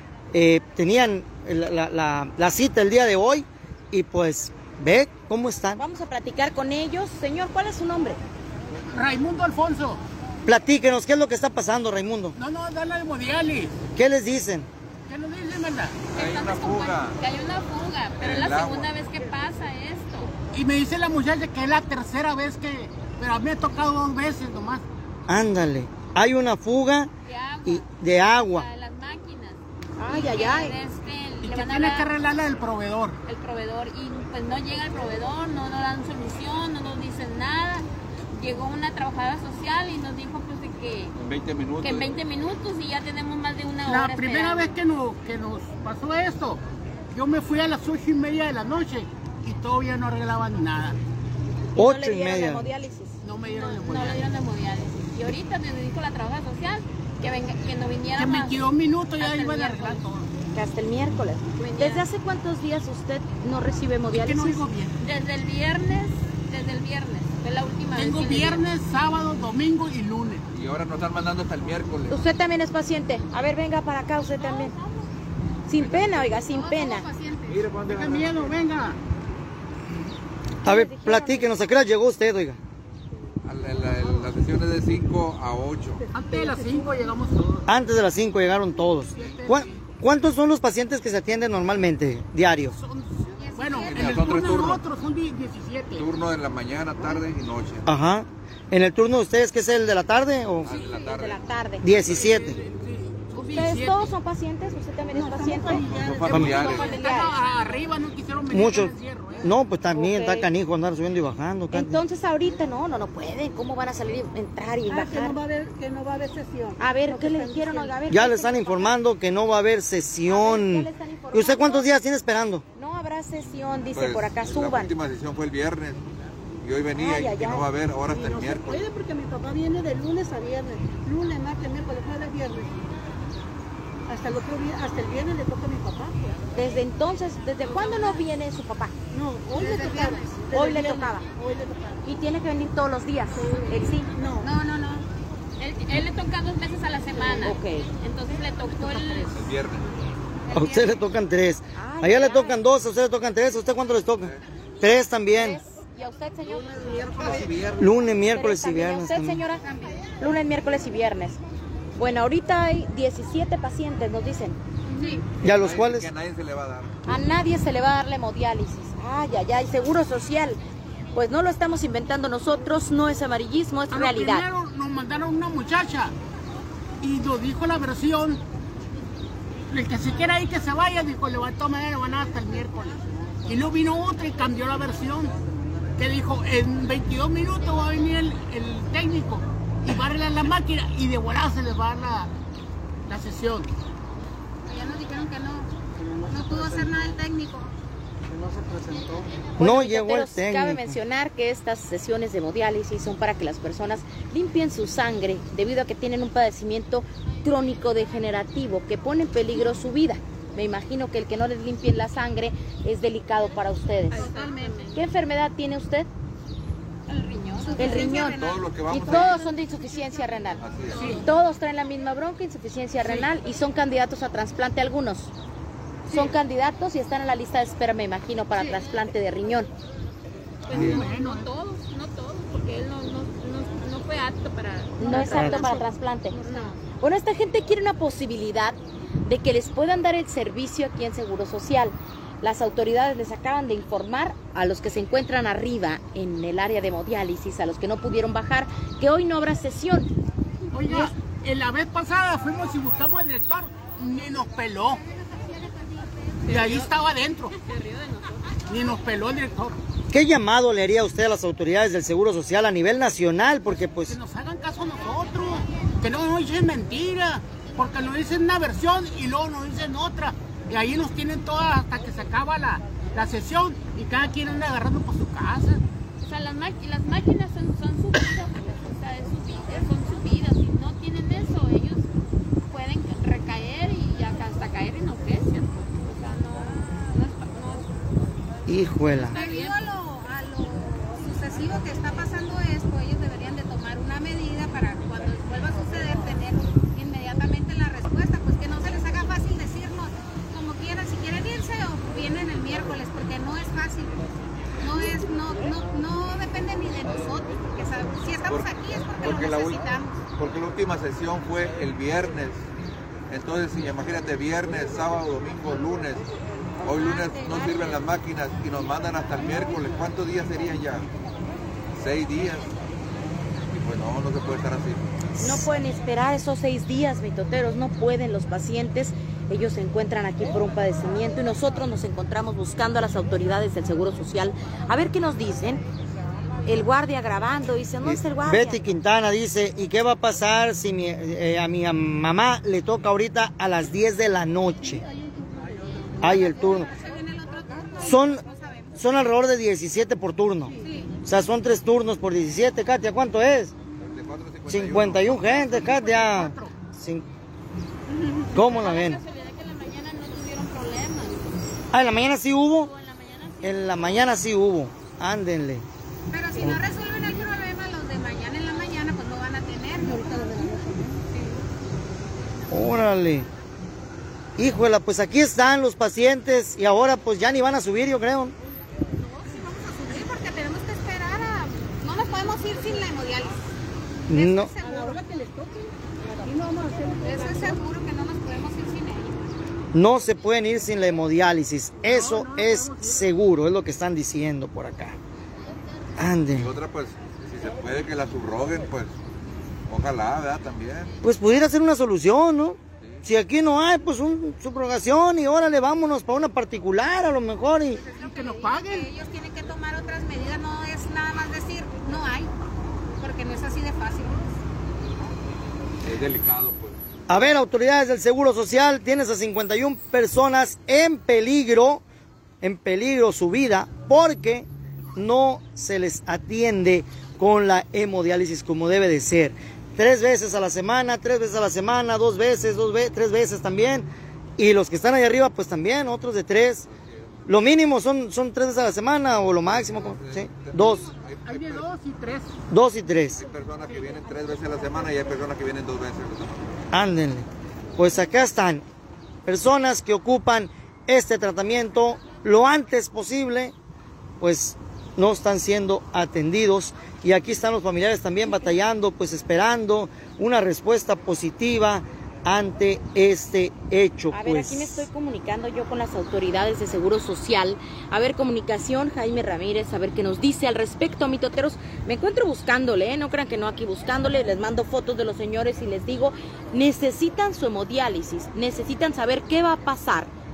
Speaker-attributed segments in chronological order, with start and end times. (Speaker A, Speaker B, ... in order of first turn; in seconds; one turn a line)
Speaker A: 0.3-5.8
Speaker B: 5.8-8.2
Speaker C: 8.9-10.0
Speaker A: 10.4-12.4
Speaker C: 12.4-13.7
Speaker A: 14.0-14.7
Speaker C: 15.1-16.1
Speaker D: 16.1-20.4
Speaker E: 16.1-17.2
Speaker E: 18.2-19.0
Speaker C: 20.5-24.9
Speaker A: 25.3-27.1
Speaker D: 27.2-32.1
Speaker A: 27.7-28.7
Speaker B: 30.0-30.8
Speaker C: 31.4-33.2
Speaker D: 33.2-41.2
Speaker E: 41.2-42.1
Speaker D: 41.8-44.7
Speaker C: 43.9-46.6
Speaker C: 47.1-51.0
Speaker B: 51.8-53.2
Speaker A: 51.8-52.7
Speaker C: 53.2-54.2
Speaker D: 53.5-60.0
Speaker C: 58.2-60.3
Speaker B: 60.5-64.6
Speaker D: 61.6-62.1
Speaker C: 64.1-64.9
Speaker D: 65.0-68.7
Speaker C: 68.0-70.4
Speaker E: 70.5-72.2
Speaker B: 72.1-74.8
Speaker D: 74.4-75.1
Speaker B: 75.7-77.0
Speaker E: 75.8-76.1
Speaker F: 76.0-77.7
Speaker E: 77.5-78.5
Speaker C: 77.9-79.0
Speaker B: 80.6-81.6
Speaker A: 80.7-82.6
Speaker E: 83.4-86.1
Speaker G: 86.1-87.6
Speaker C: 86.1-87.6
Speaker A: 87.7-92.8
Speaker C: 89.2-89.7
Speaker C: 92.8-96.1
Speaker F: 93.4-94.6
Speaker E: 93.9-94.8
Speaker E: 96.0-97.9
Speaker A: 97.9-100.8
Speaker E: 100.6-101.4
Speaker B: 100.9-101.9
Speaker A: 101.8-102.6
Speaker C: 102.0-104.1
Speaker B: 103.5-105.8
Speaker G: 105.1-106.9
Speaker E: 105.8-107.0
Speaker A: 106.3-106.6
Speaker B: 106.5-107.3
Speaker C: 106.6-109.5
Speaker A: 108.5-112.0
Speaker B: 109.9-110.5
Speaker B: 111.7-115.4
Speaker G: 114.9-118.0
Speaker B: 116.8-118.9
Speaker A: 118.1-122.6
Speaker B: 120.3-121.9
Speaker B: 122.8-124.9
Speaker E: 123.4-126.0
Speaker E: 126.6-128.9
Speaker B: 127.0-127.7
Speaker G: 128.1-132.8
Speaker G: 134.1-136.4
Speaker B: 136.6-138.9
Speaker D: 137.7-138.2
Speaker G: 139.1-142.0
Speaker B: 139.6-141.2
Speaker B: 142.0-144.1
Speaker G: 143.4-144.5
Speaker F: 144.4-145.1
Speaker D: 145.6-149.3
Speaker G: 147.1-147.5
Speaker B: 147.4-147.9
Speaker C: 148.8-149.3
Speaker E: 149.3-149.9
Speaker A: 150.5-155.6
Speaker B: 151.8-152.6
Speaker B: 155.3-157.5
Speaker G: 156.5-157.5
Speaker E: 157.2-157.8
Speaker A: 157.8-159.4
Speaker B: 158.3-159.6
Speaker B: 160.2-161.4
Speaker B: 162.0-164.6
Speaker A: 165.4-166.1
Speaker E: 165.4-167.0
Speaker B: 167.1-170.6
Speaker B: 171.1-174.5
Speaker C: 173.9-176.1
Speaker C: 177.0-178.4
Speaker C: 179.7-185.3
Speaker C: 186.0-192.3
Speaker C: 193.1-193.7
Speaker F: 194.7-195.7
Speaker F: 196.3-197.7
Speaker A: 199.6-201.0
Speaker B: 199.6-214.3
Speaker D: 214.1-215.0
Speaker F: 214.2-214.7
Speaker G: 214.3-214.8
Speaker B: 214.9-216.1
Speaker D: 217.1-218.4
Speaker F: 217.6-219.4
Speaker B: 217.8-220.6
Speaker E: 218.3-219.4
Speaker D: 219.4-221.3
Speaker E: 220.6-221.2
Speaker B: 221.2-225.3
Speaker B: 226.1-229.7
Speaker D: 228.5-228.8
Speaker E: 230.7-231.1
Speaker C: 230.7-231.5
Speaker D: 230.7-236.8
Speaker B: 235.0-236.4
Speaker G: 235.1-235.8
Speaker G: 236.4-236.7
Speaker B: 237.0-250.1
Speaker C: 250.7-255.0
Speaker D: 256.5-256.9
Speaker C: 256.5-257.6
Speaker D: 257.5-258.6
Speaker C: 258.7-259.8
Speaker A: 260.1-264.2
Speaker C: 264.1-275.8
Speaker D: 276.2-282.1
Speaker D: 282.6-287.9
Speaker A: 288.7-289.4
Speaker D: 289.1-289.8
Speaker F: 289.3-304.2
Speaker F: 304.8-310.1
Speaker E: 309.2-312.7
Speaker E: 313.3-316.2
Speaker E: 316.8-321.1
Speaker F: 316.9-318.0
Speaker E: 321.9-322.7
Speaker E: 323.7-325.1
Speaker B: 325.4-335.8
Speaker B: 336.7-338.8
Speaker A: 338.0-345.0
Speaker G: 345.5-345.8
Speaker A: 346.2-346.9
Speaker F: 346.2-348.9
Speaker G: 346.3-346.7
Speaker A: 348.0-348.4
Speaker A: 349.0-350.7
Speaker F: 350.8-351.1
Speaker A: 351.2-353.7
Speaker E: 354.0-355.6
Speaker A: 354.7-357.2
Speaker C: 355.4-356.7
Speaker D: 358.1-361.5
Speaker A: 358.5-359.2
Speaker A: 361.9-362.9
Speaker D: 362.7-364.3
Speaker A: 363.6-365.9
Speaker F: 366.3-370.7
Speaker G: 370.0-371.2
Speaker A: 372.7-373.5
Speaker A: 374.6-378.6
Speaker F: 379.2-383.7
Speaker A: 384.3-384.7
Speaker F: 384.3-385.2
Speaker G: 384.8-387.8
Speaker F: 387.2-389.6
Speaker A: 389.9-395.2
Speaker C: 392.0-393.3
Speaker A: 396.2-396.7
Speaker E: 396.6-399.2
Speaker E: 399.9-401.1
Speaker A: 401.2-408.0
Speaker F: 408.0-412.5
Speaker C: 408.2-409.1
Speaker F: 413.2-414.5
Speaker E: 416.0-417.0
Speaker A: 417.3-422.0
Speaker A: 422.6-434.1
Speaker A: 434.6-436.9
Speaker E: 436.9-437.4
Speaker A: 437.5-441.1
Speaker E: 439.6-441.9
Speaker C: 441.5-442.5
Speaker A: 442.7-443.4
Speaker E: 443.4-446.7
Speaker A: 446.9-448.8
Speaker A: 449.5-453.8
Speaker A: 454.4-465.1
Speaker B: 464.3-480.3